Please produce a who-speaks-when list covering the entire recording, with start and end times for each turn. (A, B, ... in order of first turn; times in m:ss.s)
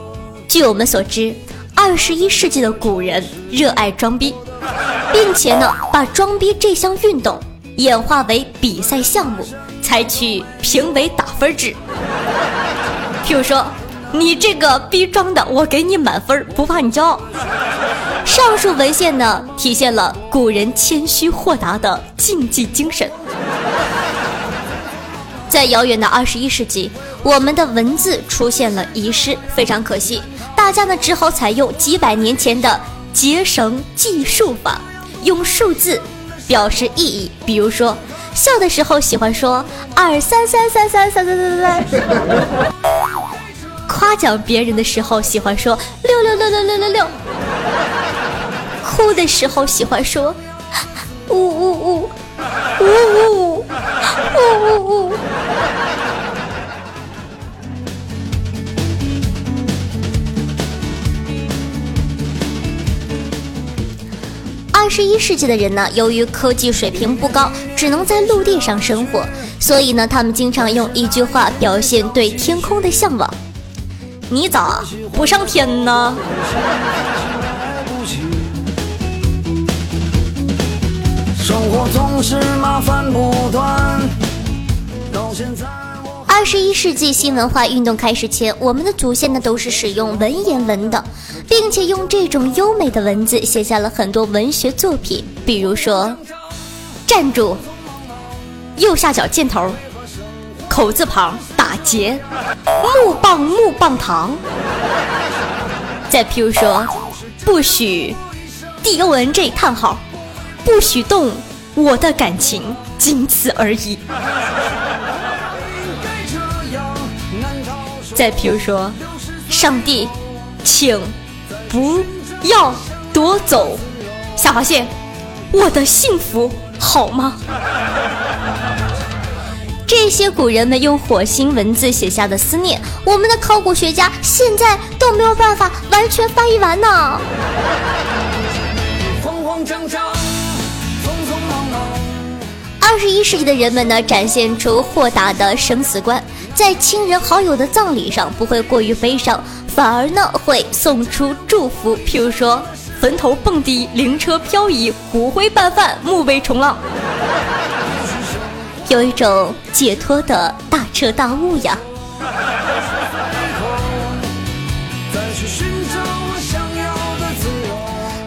0:00.5-0:04.4 A
0:05.1-0:11.8 A
0:13.2-0:17.3 A
0:18.2-0:23.2 A
0:25.5-0:42.0 A
0:43.9-0:47.1 A
0:48.8-0:50.4 A
0:51.3-0:52.1 A
0:52.8-0:55.2 A
1:04.7-1:13.4 A
1:14.3-1:16.2 A
1:16.2-1:18.6 B
1:21.4-1:24.2 B
1:25.1-1:26.2 B
1:26.3-1:36.2 A
1:37.1-1:37.6 A
1:38.8-1:39.8 A
1:40.7-1:42.2 A
1:42.8-1:44.4 A
1:46.1-1:48.2 A
1:48.8-1:50.0 A
1:50.6-1:54.0 A
1:54.3-1:58.2 B
1:58.1-2:01.1 A
2:01.7-2:04.9 A
2:05.5-2:07.4 A
2:09.8-2:17.2 A
2:19.0-2:22.4 B
2:22.8-2:36.8 A
2:37.8-2:38.7 B
2:38.9-2:41.8 A
2:42.4-2:44.3 B
2:45.1-2:48.0 B